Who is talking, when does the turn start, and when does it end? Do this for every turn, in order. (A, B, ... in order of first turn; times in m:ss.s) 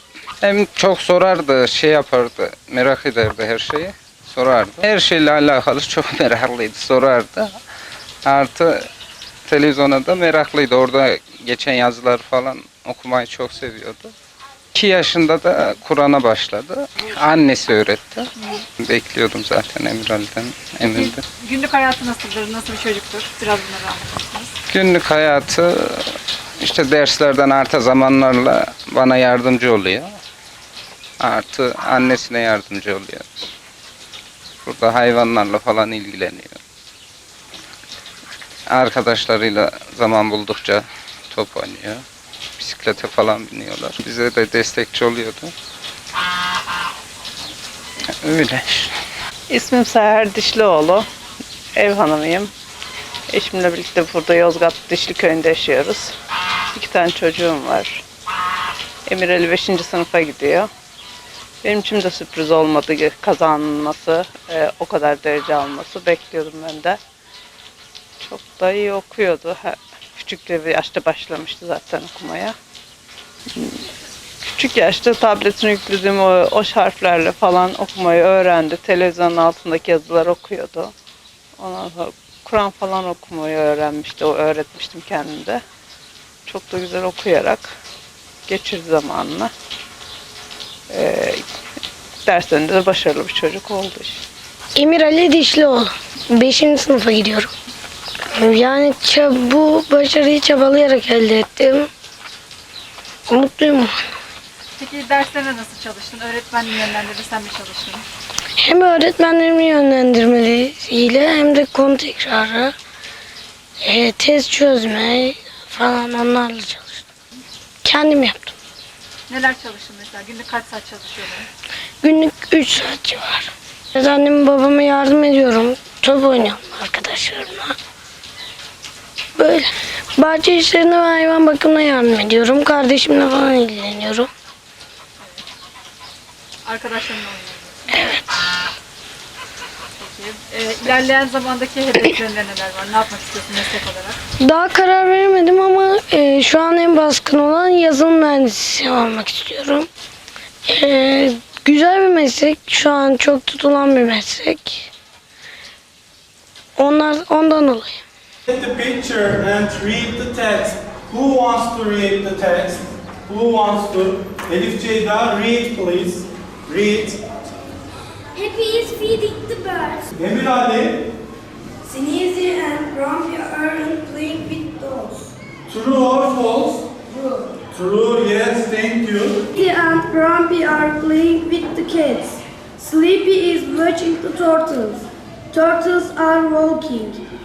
0:00.4-0:07.5 A
0:08.3-0:08.9 A
0:09.5-0:14.1 A
0:14.7-0:18.3 A
0:18.4-0:18.6 B
0:18.8-0:21.2 A
0:20.9-0:24.5 B
0:24.7-0:30.1 A
0:31.2-0:33.5 A
0:34.7-0:36.6 A
0:38.7-0:42.0 A
0:42.6-0:45.5 A
0:48.2-0:48.9 A
0:49.5-0:51.1 C
0:51.8-0:52.5 C
0:53.3-0:56.2 C
0:56.7-0:58.0 C
0:59.1-1:00.7 C
1:01.6-1:07.0 C
1:08.2-1:12.6 C
1:13.6-1:13.9 C
1:14.4-1:20.9 C
1:21.6-1:25.6 C
1:26.5-1:27.8 C
1:28.5-1:29.5 C
1:30.9-1:31.4 C
1:32.2-1:34.2 C
1:34.8-1:37.5 D
1:38.4-1:41.9 D
1:43.3-1:43.9 D
1:44.8-1:48.0 B
1:48.6-1:52.7 D
1:53.8-1:57.1 D
1:57.8-1:58.6 D
1:59.3-2:01.5 B
2:02.0-2:07.8 D
2:09.4-2:14.3 D
2:16.6-2:18.0 B
2:17.9-2:18.2 D
2:19.9-2:24.2 B
2:24.4-2:29.9 D
2:30.7-2:34.9 D
2:36.8-2:38.0 D
2:38.5-2:47.2 E
2:48.3-2:50.1 F
2:50.2-2:51.1 E
2:51.8-2:55.3 F
2:55.7-2:56.9 E
2:57.2-2:57.6 F
2:57.7-2:59.4 E
2:59.5-3:07.2 F